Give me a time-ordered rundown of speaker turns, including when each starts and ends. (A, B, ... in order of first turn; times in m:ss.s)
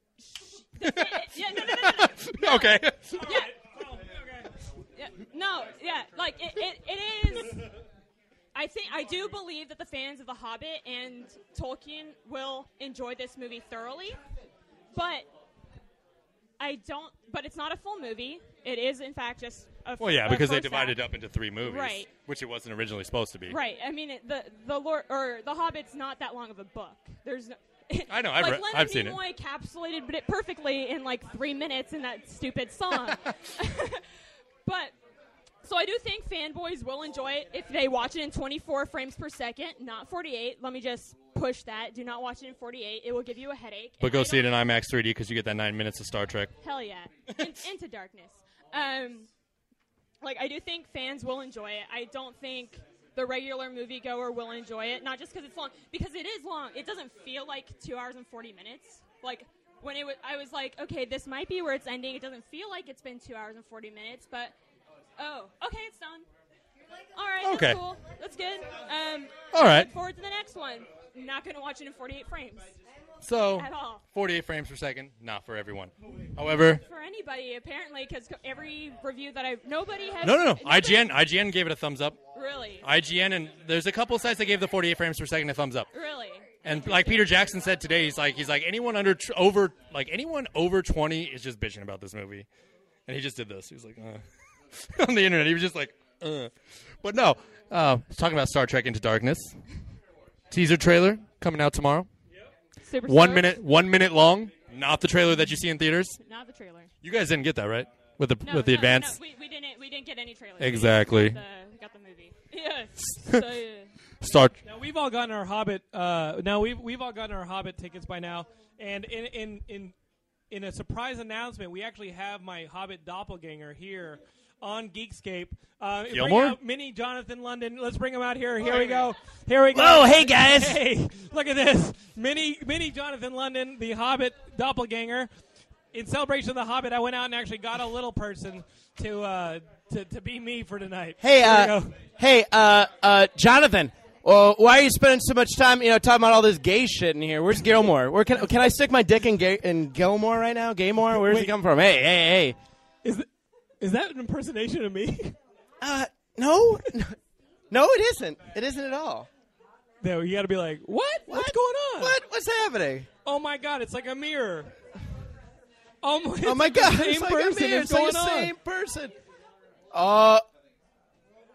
0:00.2-0:03.5 A
0:00.8-0:03.2 B
0:03.1-0:04.5 C
0:05.0-0:07.6 A
0:08.5-0:14.2 A
0:14.9-0:15.3 A
0:16.6-0:21.0 A
0:20.0-0:23.6 B
0:21.6-0:22.1 A
0:23.5-0:34.0 A
0:28.1-0:29.2 B
0:34.6-0:34.9 A
0:35.6-0:44.5 A
0:44.0-0:46.6 B
0:46.6-0:49.3 A
0:50.2-1:04.5 A
1:05.2-1:06.2 A
1:07.1-1:12.7 A
1:07.4-1:07.8 B
1:09.5-1:09.9 B
1:13.2-1:16.8 B
1:13.5-1:14.0 A
1:16.8-1:21.1 A
1:20.2-1:22.2 B
1:22.3-1:22.8 A
1:22.8-1:25.9 B
1:25.9-1:27.2 A
1:26.6-1:32.5 B
1:33.1-1:39.6 B
1:40.5-1:42.1 B
1:42.8-1:43.6 A
1:43.0-1:46.2 B
1:46.2-1:46.9 A
1:47.0-1:49.2 B
1:48.4-1:53.9 A
1:50.6-1:51.4 B
1:54.2-1:54.6 B
1:54.6-1:59.9 C
2:00.5-2:15.3 C
2:06.1-2:06.6 B
2:09.7-2:10.8 D
2:15.9-2:22.0 C
2:21.2-2:32.6 D
2:31.1-2:31.5 C
2:33.8-2:35.4 C
2:35.8-2:37.2 D
2:37.7-2:39.3 D
2:40.0-2:42.2 C
2:41.3-2:43.1 D
2:43.2-2:44.7 C
2:46.0-2:48.5 C
2:46.4-2:49.2 D
2:49.9-2:50.4 D